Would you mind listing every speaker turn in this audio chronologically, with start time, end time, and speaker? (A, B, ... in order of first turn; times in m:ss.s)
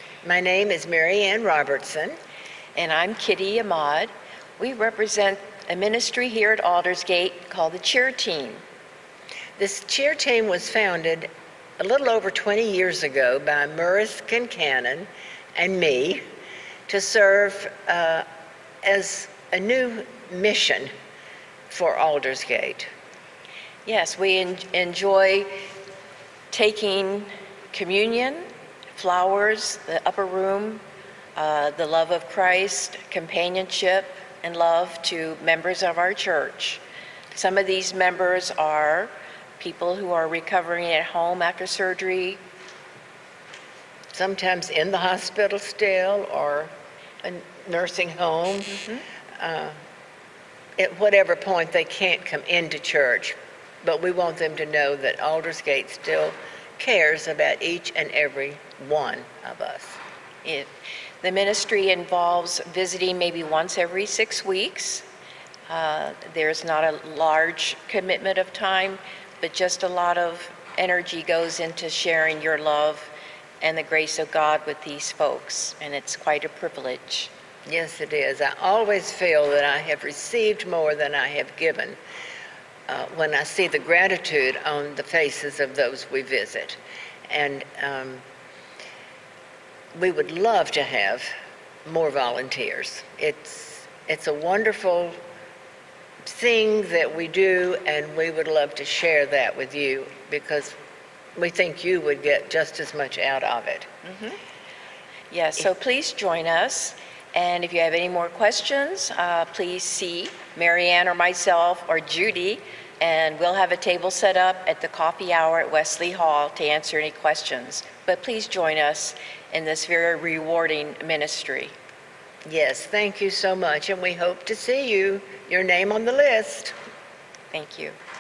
0:00.2-0:02.2 A
0:02.7-0:08.6 B
0:09.6-0:11.3 A
0:11.8-0:16.2 A
0:16.9-0:18.2 A
0:18.8-0:20.9 A
0:21.7-0:22.9 A
0:23.8-0:25.5 B
0:26.5-0:30.8 B
0:31.4-0:36.8 B
0:37.3-0:42.4 B
0:44.1-0:46.7 A
0:47.2-0:48.8 A
0:49.4-0:49.8 A
0:50.8-1:00.0 A
1:01.2-1:05.0 B
1:05.7-1:17.3 B
1:17.6-1:22.0 A
1:22.9-1:28.2 A
1:29.9-1:31.3 A
1:31.8-1:35.2 A
1:36.2-1:40.8 A
1:41.4-1:43.9 A
1:44.0-1:44.4 B
1:45.3-2:01.7 B
2:02.4-2:06.7 A
2:07.5-2:08.0 B